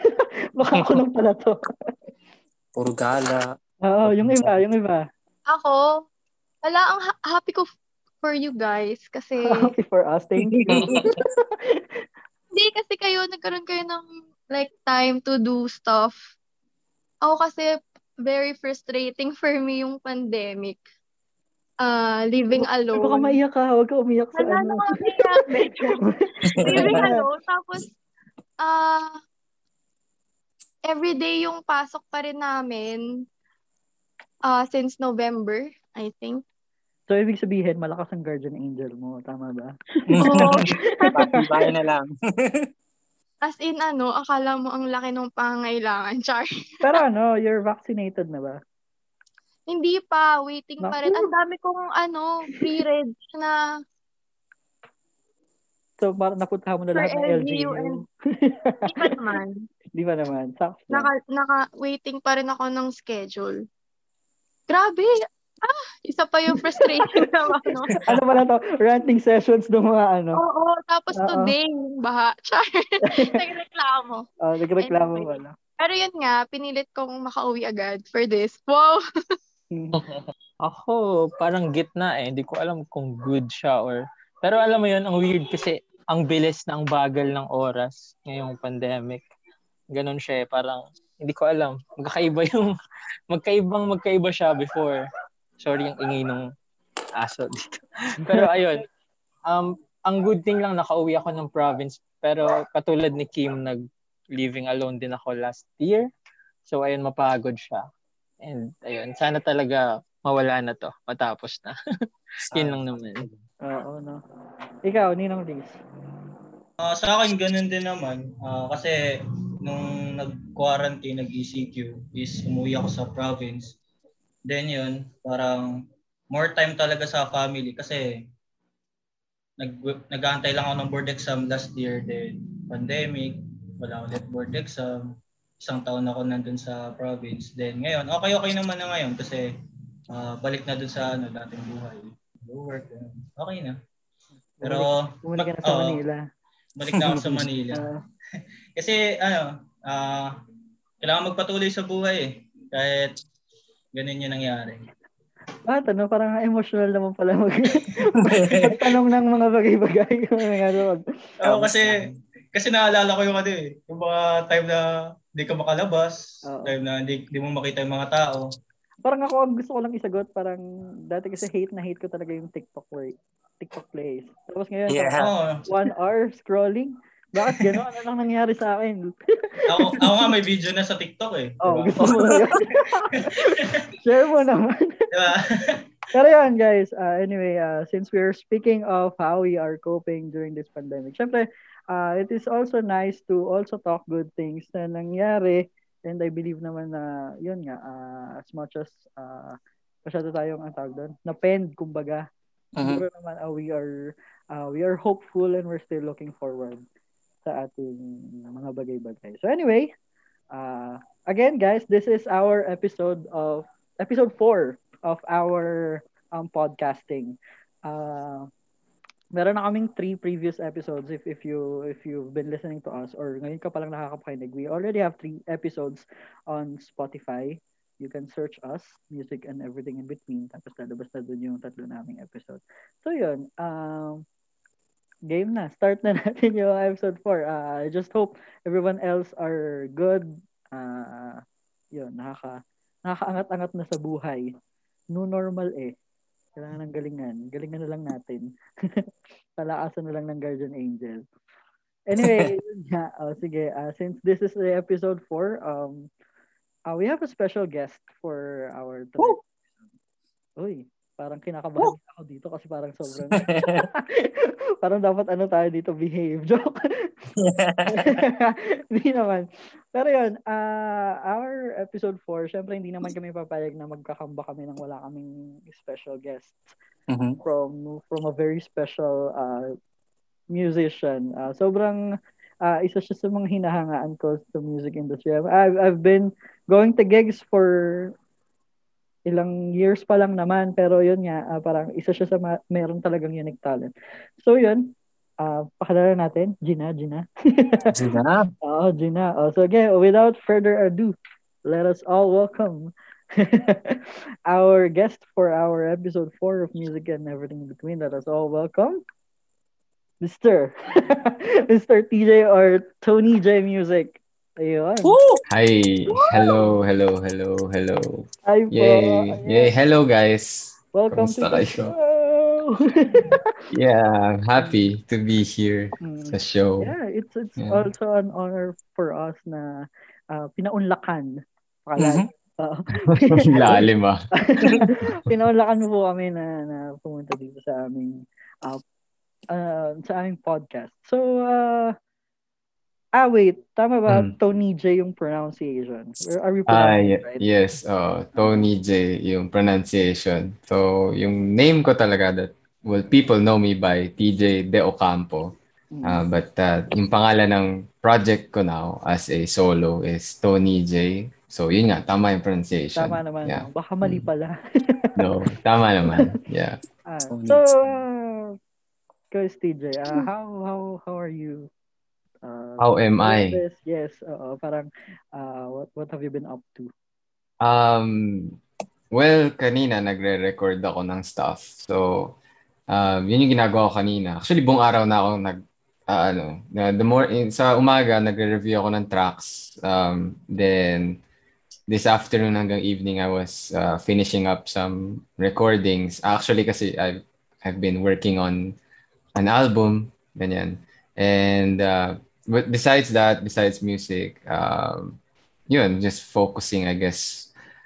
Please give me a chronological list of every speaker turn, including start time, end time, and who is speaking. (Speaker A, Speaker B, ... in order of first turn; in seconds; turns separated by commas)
Speaker A: 0.6-1.6, Speaker B: 0.7-1.0, Speaker B: 2.8-3.5, Speaker A: 3.9-5.0, Speaker B: 4.0-4.6, Speaker C: 5.5-6.0, Speaker C: 6.6-7.7, Speaker C: 8.2-9.7, Speaker A: 9.5-11.3, Speaker B: 10.4-11.2, Speaker C: 12.5-16.2, Speaker C: 17.2-20.8, Speaker C: 21.8-23.4, Speaker A: 22.6-27.2, Speaker C: 24.4-26.0, Speaker B: 26.5-27.1, Speaker C: 26.6-27.9, Speaker C: 28.6-29.2, Speaker C: 30.9-33.3, Speaker C: 34.5-36.4, Speaker A: 37.1-41.6, Speaker B: 40.1-42.7, Speaker C: 40.2-41.3, Speaker C: 43.4-47.0, Speaker A: 46.8-48.6, Speaker C: 49.7-53.6, Speaker A: 50.8-51.3, Speaker A: 56.0-59.3, Speaker C: 56.9-58.0, Speaker C: 58.9-59.7, Speaker A: 60.0-61.1, Speaker C: 60.9-63.6, Speaker C: 64.7-68.0, Speaker A: 66.8-67.2, Speaker A: 67.9-70.4, Speaker C: 70.4-74.3, Speaker A: 71.2-71.5, Speaker A: 73.1-73.4, Speaker A: 74.4-75.5, Speaker C: 74.8-79.0, Speaker A: 79.7-80.0, Speaker D: 80.6-89.2, Speaker D: 89.9-92.7, Speaker D: 93.3-95.0, Speaker D: 95.6-96.5, Speaker D: 97.2-98.9, Speaker D: 99.5-103.8, Speaker D: 104.3-106.1, Speaker D: 106.7-107.8, Speaker D: 108.4-111.8, Speaker B: 112.5-113.4, Speaker D: 112.5-113.3, Speaker A: 113.7-114.2, Speaker A: 114.9-115.8, Speaker E: 116.8-119.0, Speaker E: 119.7-123.7, Speaker E: 124.5-128.2, Speaker E: 129.6-139.5, Speaker E: 140.1-143.8, Speaker A: 144.6-146.2, Speaker E: 144.6-146.0, Speaker E: 146.8-147.9, Speaker B: 146.9-147.5, Speaker A: 147.7-148.0, Speaker E: 148.8-150.3, Speaker E: 151.0-153.2, Speaker E: 153.9-154.9, Speaker A: 155.7-162.0, Speaker B: 158.2-158.9, Speaker E: 161.4-164.8, Speaker E: 165.4-168.5, Speaker A: 166.5-166.8, Speaker A: 169.1-180.1, Speaker B: 174.9-175.3, Speaker E: 175.2-175.6, Speaker E: 179.7-182.2, Speaker A: 181.6-185.1, Speaker E: 183.1-183.9, Speaker E: 185.1-185.8, Speaker A: 186.1-202.3, Speaker B: 202.8-203.1, Speaker A: 202.8-206.8, Speaker A: 207.5-209.9, Speaker A: 210.5-218.5, Speaker A: 219.3-234.2, Speaker A: 235.3-241.4, Speaker A: 242.0-244.5, Speaker A: 245.2-245.9, Speaker A: 246.6-249.1, Speaker A: 249.6-251.2, Speaker A: 252.1-256.1, Speaker B: 252.2-252.5, Speaker A: 256.9-259.4, Speaker A: 260.6-264.3, Speaker B: 263.3-263.9, Speaker A: 264.8-267.1, Speaker B: 267.4-268.2, Speaker A: 267.9-276.7, Speaker B: 277.1-277.4, Speaker A: 277.4-279.7, Speaker A: 280.5-282.0, Speaker A: 282.6-288.1, Speaker A: 289.3-297.9, Speaker B: 297.9-298.5, Speaker A: 298.6-309.0, Speaker A: 310.2-315.1, Speaker F: 315.5-321.9, Speaker A: 318.5-319.7, Speaker A: 320.9-323.4, Speaker F: 323.7-326.9, Speaker A: 326.0-329.7, Speaker F: 327.6-327.9, Speaker A: 330.3-331.3, Speaker A: 331.9-338.8, Speaker B: 332.0-332.3, Speaker F: 333.1-334.3, Speaker A: 339.5-341.9, Speaker A: 343.2-347.4, Speaker F: 344.1-344.3, Speaker F: 346.7-355.5, Speaker A: 348.4-348.7, Speaker A: 355.9-356.2, Speaker F: 356.1-364.2, Speaker A: 363.0-364.6, Speaker F: 365.2-366.8, Speaker A: 367.1-368.5, Speaker B: 367.3-368.0, Speaker A: 369.3-371.7, Speaker A: 372.4-376.9, Speaker F: 372.8-373.6, Speaker F: 377.6-378.6, Speaker F: 379.1-382.4, Speaker F: 382.9-391.2, Speaker F: 391.9-398.8, Speaker F: 399.4-407.5